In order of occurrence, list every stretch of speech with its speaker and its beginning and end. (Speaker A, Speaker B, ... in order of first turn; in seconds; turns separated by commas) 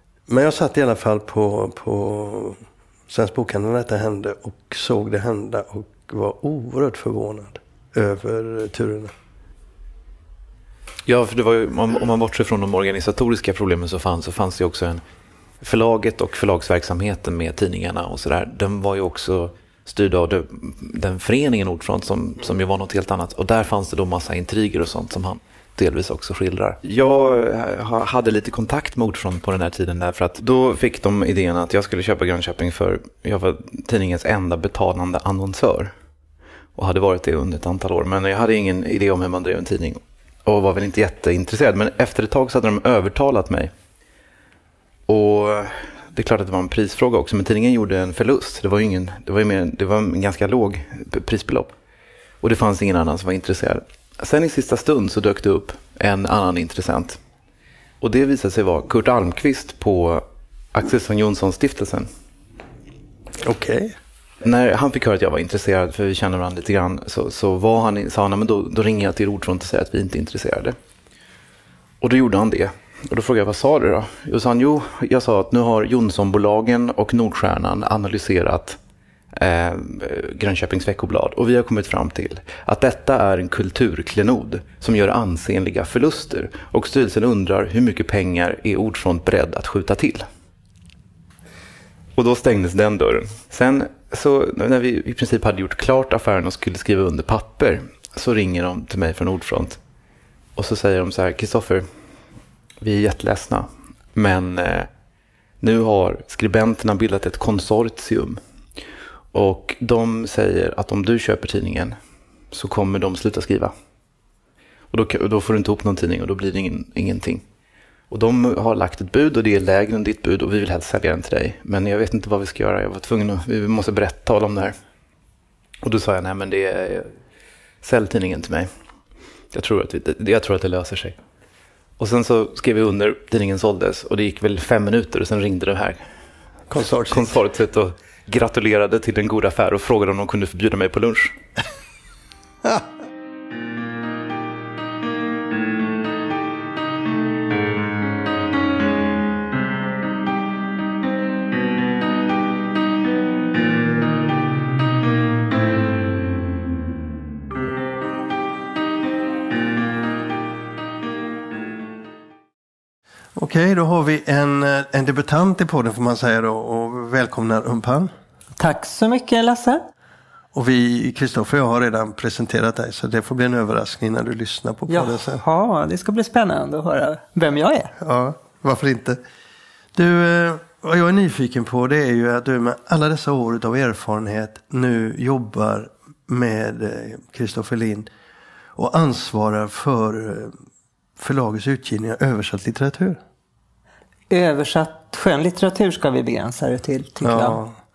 Speaker A: 0.3-9.1, Speaker B: 11.1-15.0, Speaker B: 15.6-35.9, Speaker B: 36.8-43.7, Speaker B: 45.1-51.7, Speaker B: 52.4-57.2, Speaker B: 58.0-60.2, Speaker B: 60.7-62.1, Speaker A: 63.4-63.9, Speaker B: 64.4-70.7, Speaker B: 72.0-78.8, Speaker B: 79.3-90.2, Speaker B: 92.2-99.8, Speaker B: 100.5-101.8, Speaker B: 102.8-104.9, Speaker B: 105.6-108.4, Speaker B: 109.3-111.9, Speaker B: 112.5-113.7, Speaker B: 114.9-117.4, Speaker B: 118.1-124.7, Speaker B: 125.8-127.1, Speaker B: 127.8-128.7, Speaker B: 129.5-131.2, Speaker B: 132.0-136.0, Speaker A: 136.7-137.3, Speaker B: 137.0-141.3, Speaker A: 163.3-168.1, Speaker C: 168.6-169.8, Speaker A: 170.5-175.4, Speaker C: 174.9-177.9, Speaker A: 178.0-179.2, Speaker A: 179.9-188.1, Speaker A: 188.8-190.5, Speaker A: 191.2-193.2, Speaker C: 194.3-197.6, Speaker A: 197.2-197.8